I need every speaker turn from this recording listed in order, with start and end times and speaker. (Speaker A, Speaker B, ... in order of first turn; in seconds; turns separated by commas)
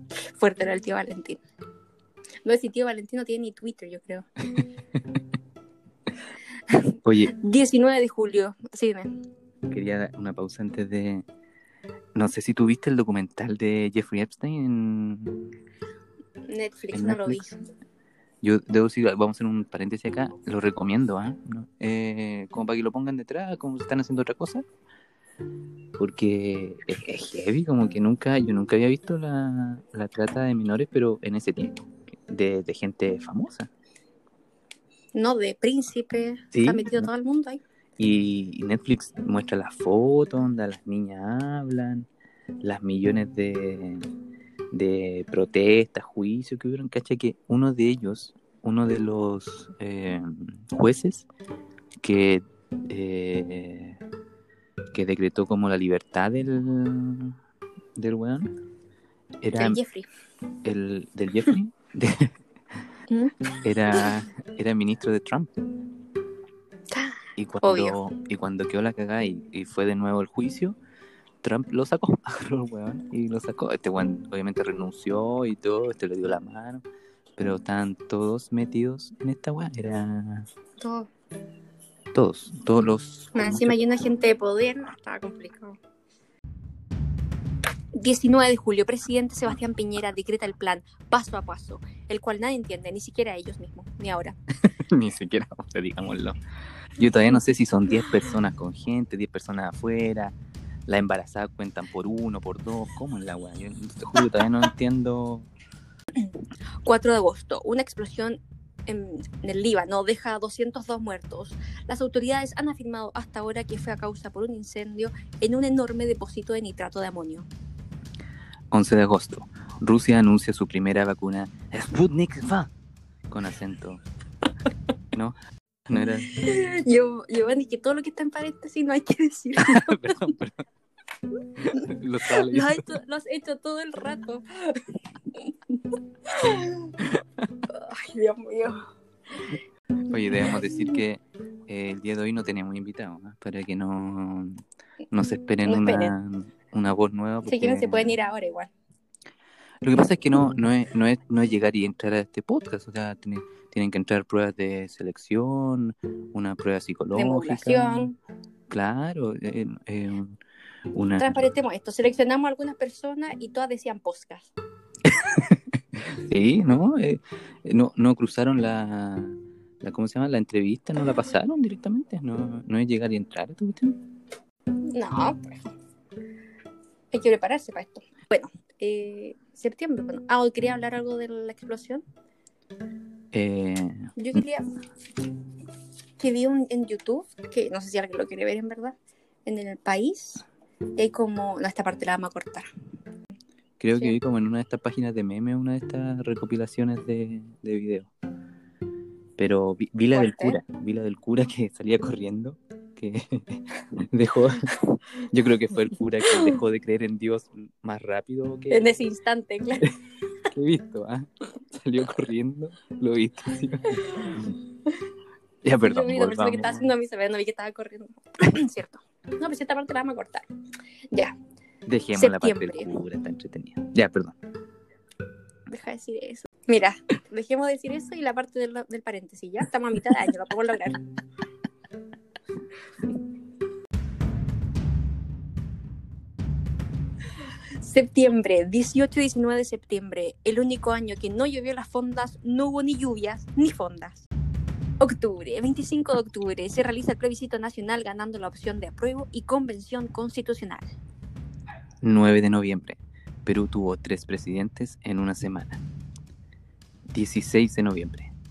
Speaker A: 0.2-1.4, Speaker A: 2.4-4.3, Speaker A: 6.7-9.2, Speaker B: 7.0-7.3, Speaker B: 9.7-11.2, Speaker B: 12.2-15.5, Speaker A: 16.5-17.6, Speaker B: 16.9-17.5, Speaker B: 18.4-24.6, Speaker B: 26.0-33.7, Speaker A: 35.1-37.6, Speaker B: 36.5-37.1, Speaker B: 38.0-42.1, Speaker B: 42.6-44.1, Speaker B: 44.7-51.3, Speaker B: 52.0-54.0, Speaker B: 54.9-57.4, Speaker B: 58.0-58.5, Speaker B: 59.4-59.8, Speaker A: 59.6-60.1, Speaker B: 60.6-62.3, Speaker A: 63.1-63.5, Speaker B: 63.6-65.5, Speaker A: 66.9-68.0, Speaker B: 67.4-70.8, Speaker B: 71.4-76.8, Speaker B: 77.4-80.5, Speaker A: 80.8-81.1, Speaker B: 82.1-83.8, Speaker A: 83.3-85.8, Speaker A: 88.0-94.4, Speaker B: 94.6-96.4, Speaker B: 97.0-100.3, Speaker B: 100.9-105.5, Speaker A: 106.8-117.5, Speaker B: 118.7-122.7, Speaker B: 123.3-124.0, Speaker B: 125.1-126.3, Speaker A: 126.3-130.0, Speaker B: 129.6-130.6, Speaker B: 131.6-132.9, Speaker A: 132.3-134.8, Speaker A: 136.3-136.9, Speaker A: 137.7-138.8, Speaker B: 140.1-148.1, Speaker A: 145.7-146.1, Speaker A: 147.4-148.7, Speaker B: 149.8-158.1, Speaker A: 157.1-158.2, Speaker B: 158.7-160.4, Speaker B: 160.9-161.4, Speaker A: 161.2-164.5, Speaker B: 165.1-174.0, Speaker A: 174.9-175.7, Speaker A: 177.1-182.0, Speaker B: 183.3-184.1, Speaker A: 184.2-184.7, Speaker A: 186.2-190.4, Speaker A: 191.0-192.7, Speaker B: 193.8-198.1, Speaker B: 199.4-209.0, Speaker A: 200.1-200.6, Speaker A: 208.7-209.9, Speaker B: 210.5-214.6, Speaker A: 214.1-214.4, Speaker B: 215.6-216.9, Speaker A: 215.8-220.5, Speaker B: 221.9-224.4, Speaker A: 222.2-223.0, Speaker A: 225.7-231.0, Speaker A: 237.8-244.3, Speaker A: 245.0-250.9, Speaker B: 252.0-255.8, Speaker B: 257.1-258.3